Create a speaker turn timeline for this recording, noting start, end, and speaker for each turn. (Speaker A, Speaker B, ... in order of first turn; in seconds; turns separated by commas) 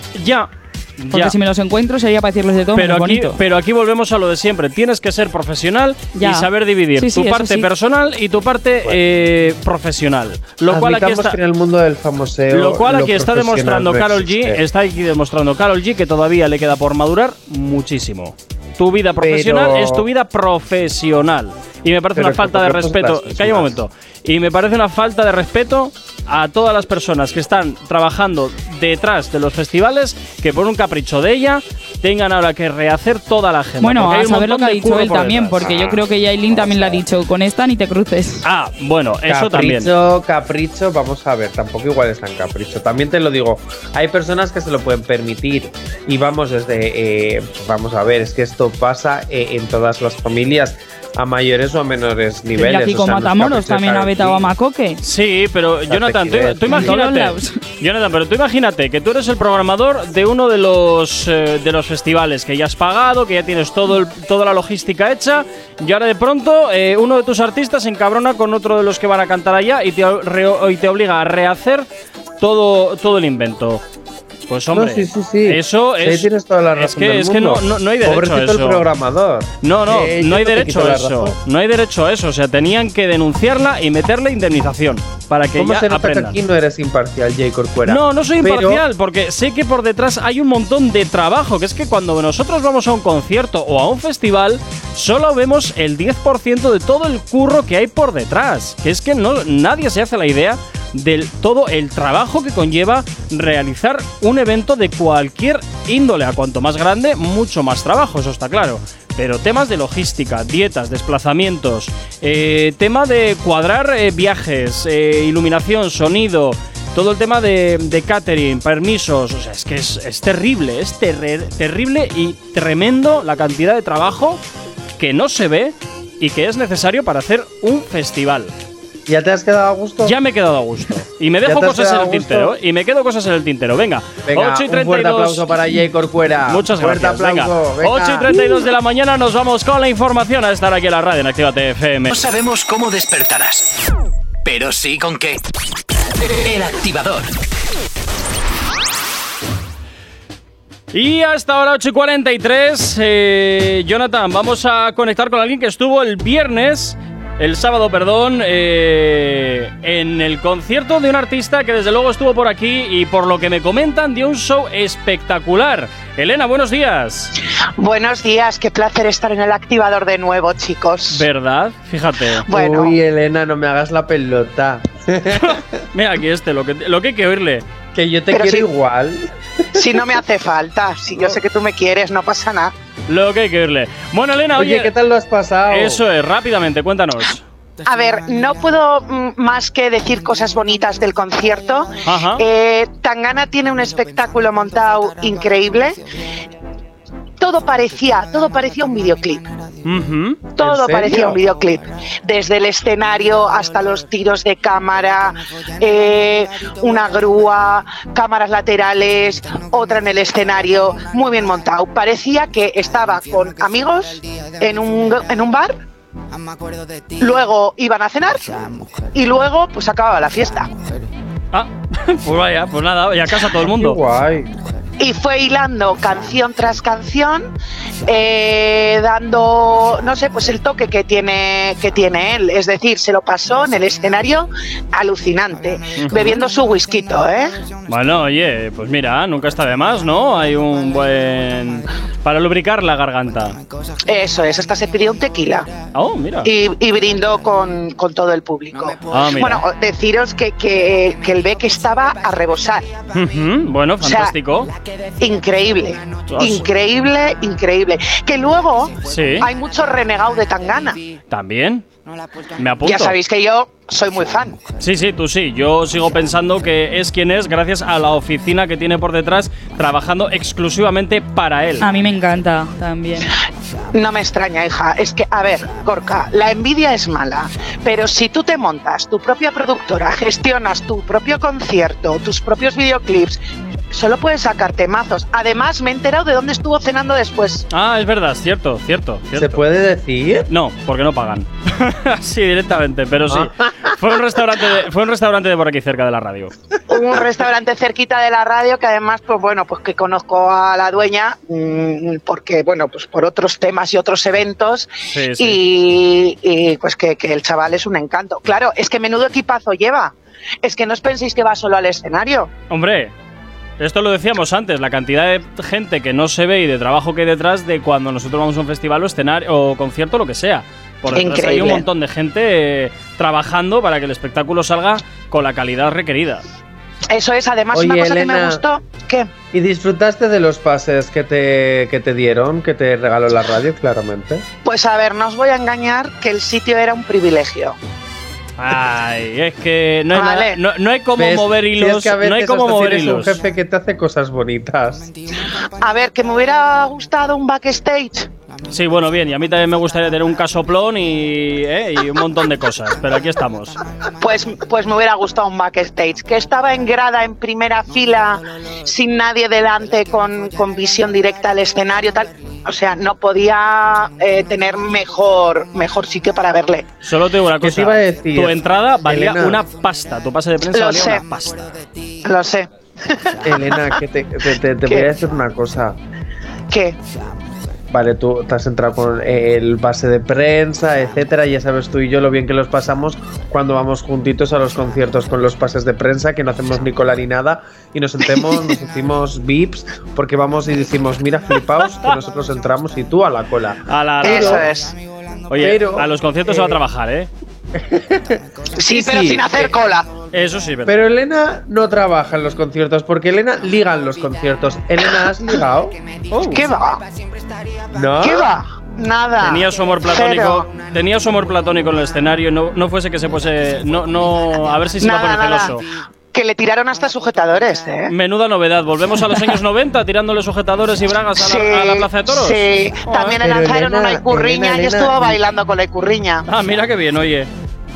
Speaker A: 0.1-1.4, Speaker B: 1.1-3.4, Speaker A: 2.8-11.4, Speaker B: 6.2-7.7, Speaker C: 10.7-14.6, Speaker A: 12.5-36.0, Speaker C: 19.2-20.1, Speaker C: 22.1-23.8, Speaker B: 33.8-38.5, Speaker C: 35.7-36.0, Speaker C: 36.5-37.0, Speaker A: 38.5-39.9, Speaker C: 39.3-54.5, Speaker B: 52.6-55.0, Speaker A: 55.0-71.9, Speaker C: 55.9-57.0, Speaker B: 56.7-57.6, Speaker A: 72.4-73.8, Speaker A: 74.5-78.9, Speaker C: 74.7-81.4, Speaker A: 79.6-86.4, Speaker C: 85.6-88.8, Speaker A: 87.9-124.4, Speaker A: 125.0-128.5, Speaker C: 129.1-130.2, Speaker A: 130.0-135.5, Speaker C: 131.4-132.6, Speaker C: 134.3-138.3, Speaker A: 136.5-142.1, Speaker D: 142.1-143.7, Speaker D: 144.4-145.4, Speaker D: 146.3-147.3, Speaker A: 150.9-167.3, Speaker E: 167.8-171.2, Speaker A: 171.1-172.5, Speaker E: 172.5-173.0, Speaker C: 172.5-175.8, Speaker A: 175.3-177.7, Speaker C: 177.9-180.0, Speaker E: 178.3-178.7, Speaker E: 179.8-182.7, Speaker C: 181.1-181.4, Speaker A: 183.1-184.9, Speaker C: 184.6-186.0, Speaker A: 185.7-187.4, Speaker E: 187.9-196.0, Speaker A: 192.0-192.4, Speaker E: 197.4-199.5, Speaker A: 199.8-200.4, Speaker E: 200.6-215.8, Speaker C: 200.6-201.4, Speaker E: 217.2-218.5, Speaker E: 219.1-220.7, Speaker A: 221.5-224.0, Speaker C: 223.6-224.5, Speaker E: 225.0-227.5, Speaker E: 228.1-237.5, Speaker A: 236.0-236.4, Speaker A: 237.9-243.6, Speaker E: 244.1-245.7, Speaker A: 245.9-246.5, Speaker E: 246.4-252.9, Speaker A: 249.1-249.7, Speaker A: 253.1-254.7, Speaker E: 254.0-254.3, Speaker E: 255.2-261.0, Speaker A: 256.3-256.7, Speaker A: 259.1-259.5, Speaker A: 261.3-261.9, Speaker A: 262.6-263.2, Speaker E: 262.8-264.6, Speaker A: 264.8-271.9, Speaker B: 271.8-273.3, Speaker E: 273.9-283.4, Speaker E: 283.9-287.7, Speaker A: 287.7-289.6, Speaker C: 289.3-290.5, Speaker A: 290.5-296.5, Speaker C: 293.3-293.9, Speaker E: 296.9-312.5, Speaker A: 305.1-305.6, Speaker A: 312.7-313.1, Speaker A: 313.8-326.4, Speaker E: 321.1-321.8, Speaker E: 327.1-329.3, Speaker C: 327.7-328.6, Speaker C: 329.5-334.4, Speaker E: 334.6-337.8, Speaker A: 338.6-343.4, Speaker E: 340.1-340.6, Speaker C: 341.2-345.1, Speaker E: 345.8-348.3, Speaker A: 348.7-353.8, Speaker E: 354.2-366.9, Speaker A: 367.0-371.7, Speaker C: 367.6-369.6, Speaker E: 370.7-371.2, Speaker E: 372.2-373.9, Speaker C: 373.4-376.0, Speaker E: 374.9-375.1, Speaker E: 376.7-377.0, Speaker C: 377.9-394.7, Speaker A: 393.9-394.7, Speaker E: 394.2-394.9, Speaker A: 395.5-397.3, Speaker C: 395.6-396.8, Speaker C: 397.8-399.7, Speaker E: 398.8-400.1, Speaker A: 400.3-401.0, Speaker C: 400.9-406.0, Speaker A: 406.3-406.6, Speaker E: 406.5-407.0, Speaker C: 407.9-408.5, Speaker E: 408.2-410.7, Speaker A: 409.4-415.8, Speaker E: 415.0-415.8, Speaker E: 416.3-418.1, Speaker A: 418.1-423.4, Speaker E: 421.4-426.4, Speaker C: 423.4-425.4, Speaker A: 426.5-427.5